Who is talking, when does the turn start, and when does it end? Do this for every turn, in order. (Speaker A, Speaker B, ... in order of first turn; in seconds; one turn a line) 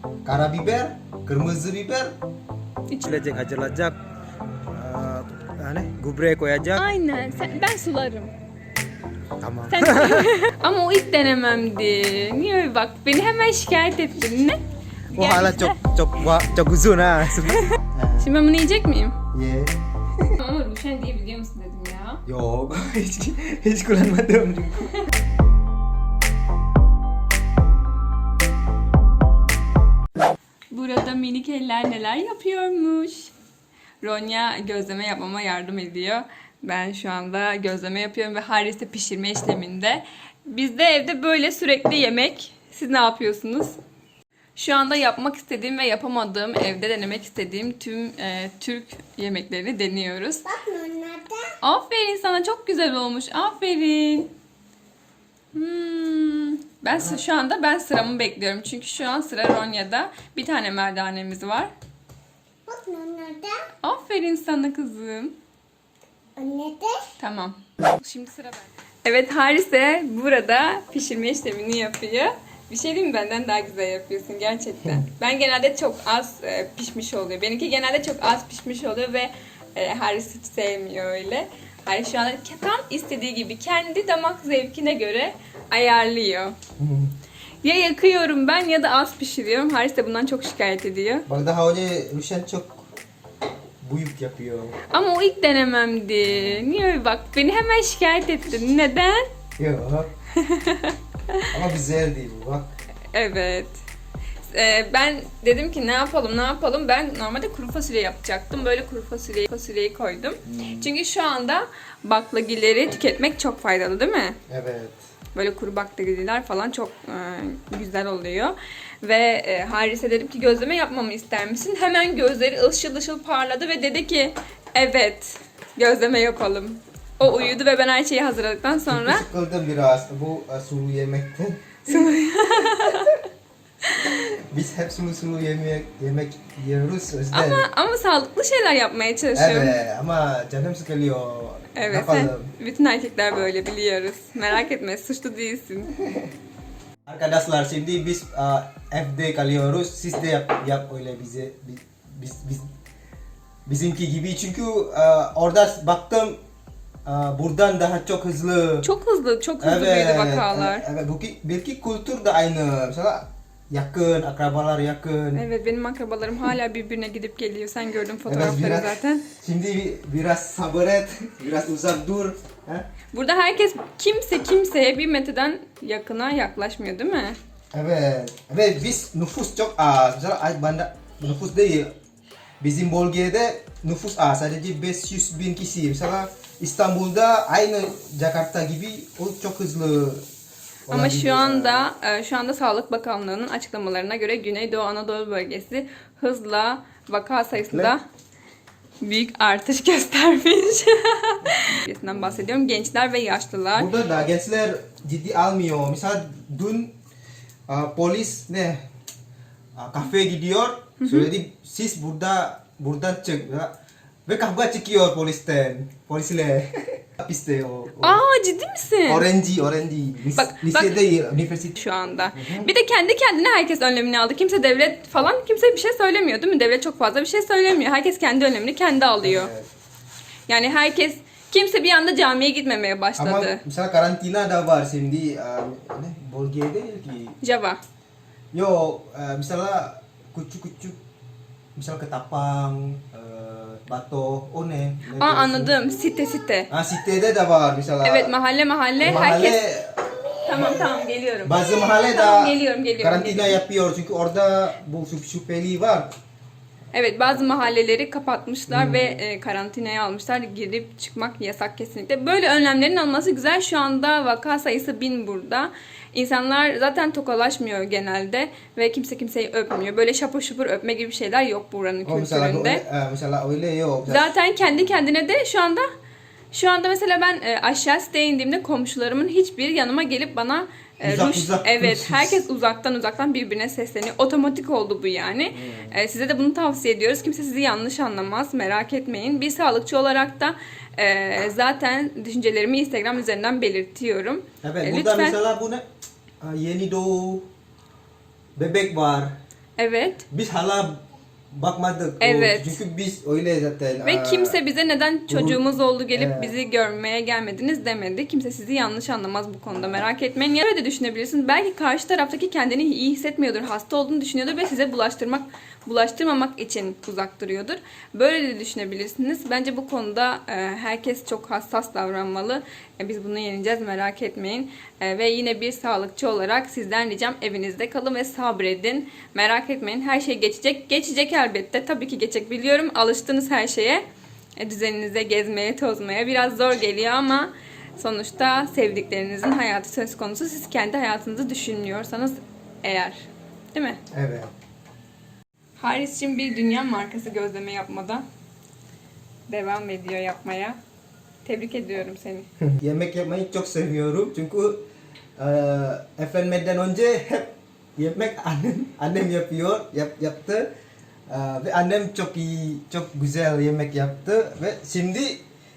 Speaker A: 0.2-2.1
Speaker A: 3.0-4.0
Speaker A: 4.7-7.6
Speaker B: 6.7-8.3
Speaker A: 9.4-10.3
Speaker B: 9.7-15.8
Speaker A: 15.1-18.3
Speaker B: 17.4-19.2
Speaker A: 19.3-19.7
Speaker B: 20.4-22.2
Speaker A: 22.2-24.9
Speaker B: 30.7-33.3
Speaker B: 34.0-43.8
Speaker B: 44.6-50.6
Speaker C: 50.6-51.5
Speaker B: 51.6-54.3
Speaker B: 55.5-61.7
Speaker C: 62.7-63.6
Speaker B: 63.8-65.3
Speaker C: 66.4-67.1
Speaker B: 67.2-86.5
Speaker A: 86.8-87.1
Speaker B: 87.6-91.2
Speaker A: 91.3-92.8
Speaker A: 93.8-94.8
Speaker B: 94.9-99.3
Speaker A: 99.6-100.1
Speaker B: 100.3-101.6
Speaker A: 101.5-102.7
Speaker B: 103.1-103.8
Speaker B: 104.5-114.4
Speaker A: 110.5-110.9
Speaker A: 114.5-115.0
Speaker B: 115.3-129.2
Speaker A: 128.9-132.1
Speaker B: 131.8-133.2
Speaker A: 132.8-133.0
Speaker B: 133.8-134.2
Speaker A: 134.0-137.7
Speaker B: 137.3-139.8
Speaker A: 139.3-142.5
Speaker B: 141.7-145.9
Speaker A: 147.1-152.7
Speaker A: 153.7-156.4
Speaker A: 157.0-158.9
Speaker B: 158.8-160.8
Speaker A: 159.6-165.4
Speaker B: 165.3-169.3
Speaker A: 168.2-172.9
Speaker B: 173.1-177.4
Speaker A: 177.7-181.9
Speaker A: 182.6-190.2
Speaker A: 190.9-191.9
Speaker B: 190.9-198.0
Speaker A: 197.7-197.9
Speaker B: 199.0-203.9
Speaker A: 203.7-206.9
Speaker A: 207.7-208.8
Speaker A: 209.8-213.7
Speaker B: 211.0-211.3
Speaker A: 214.3-218.2
Speaker B: 218.0-219.3
Speaker A: 219.1-221.7
Speaker B: 220.3-221.0
Speaker B: 221.7-229.5
Speaker A: 222.3-222.7
Speaker A: 229.2-229.7
Speaker B: 230.5-233.6
Speaker A: 233.2-237.4
Speaker B: 237.4-237.8
Speaker A: 238.5-241.0
Speaker A: 241.8-245.7
Speaker B: 245.2-246.7
Speaker A: 246.7-248.3
Speaker B: 248.0-249.6
Speaker A: 249.0-250.9
Speaker B: 250.4-253.6
Speaker A: 251.4-256.1
Speaker B: 256.9-272.8
Speaker A: 258.7-259.2
Speaker A: 272.0-274.3
Speaker B: 274.1-275.9
Speaker B: 276.5-295.4
Speaker A: 281.0-282.4
Speaker A: 285.5-285.9
Speaker A: 294.6-295.8
Speaker A: 296.4-297.5
Speaker A: 298.6-299.4
Speaker B: 299.8-300.2
Speaker A: 300.3-304.6
Speaker B: 302.2-302.8
Speaker B: 304.0-334.0
Speaker A: 305.3-305.6
Speaker A: 306.1-306.5
Speaker B: 334.6-344.0
Speaker A: 344.1-344.5
Speaker B: 345.8-348.2
Speaker B: 349.5-350.8
Speaker B: 351.4-352.5
Speaker A: 352.7-354.8
Speaker A: 355.4-360.7
Speaker A: 361.3-365.4